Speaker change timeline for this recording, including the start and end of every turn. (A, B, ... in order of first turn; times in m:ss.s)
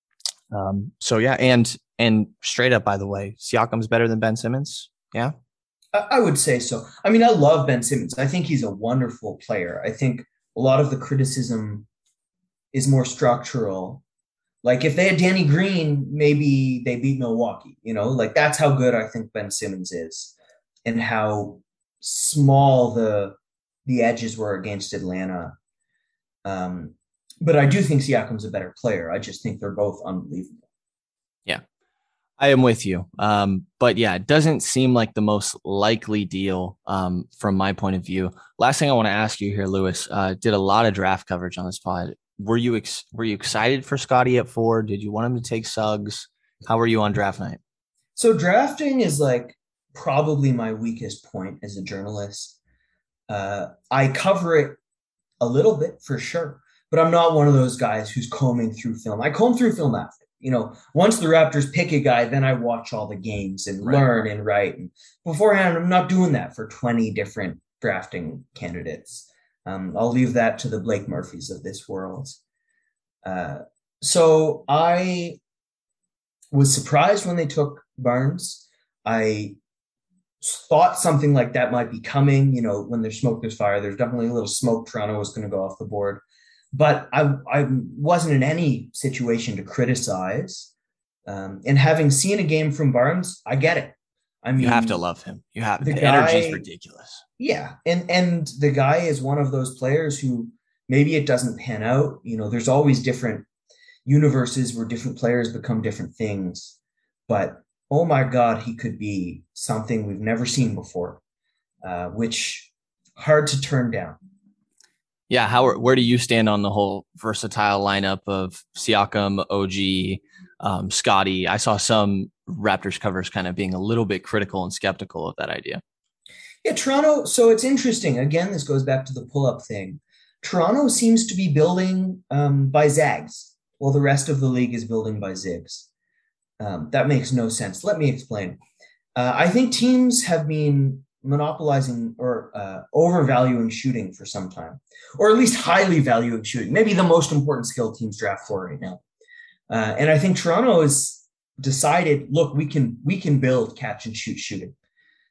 0:00.5-0:05.3 A
0:05.9-0:11.9 B
0:12.7-0:14.0 B
0:14.6-0:20.3 B
0:20.9-0:25.6 B
0:26.4-0:30.6 B
0:32.4-0:47.6 A
0:48.2-0:52.6 B
0:53.3-0:54.8 B
0:55.4-1:12.4 B
1:13.2-1:15.4 B
1:16.5-1:19.6 B
1:20.4-1:26.2 B
1:26.7-1:30.7 B
1:31.3-1:35.0 B
1:34.6-1:37.2 A
1:35.8-1:36.6 B
1:37.4-1:43.5 B
1:44.0-1:46.8 B
1:47.3-1:51.2 B
1:51.8-1:54.2 B
1:55.3-2:05.8 A
2:06.6-2:15.9 B
2:16.6-2:18.6 B
2:19.2-2:29.0 B
2:29.7-2:34.7 B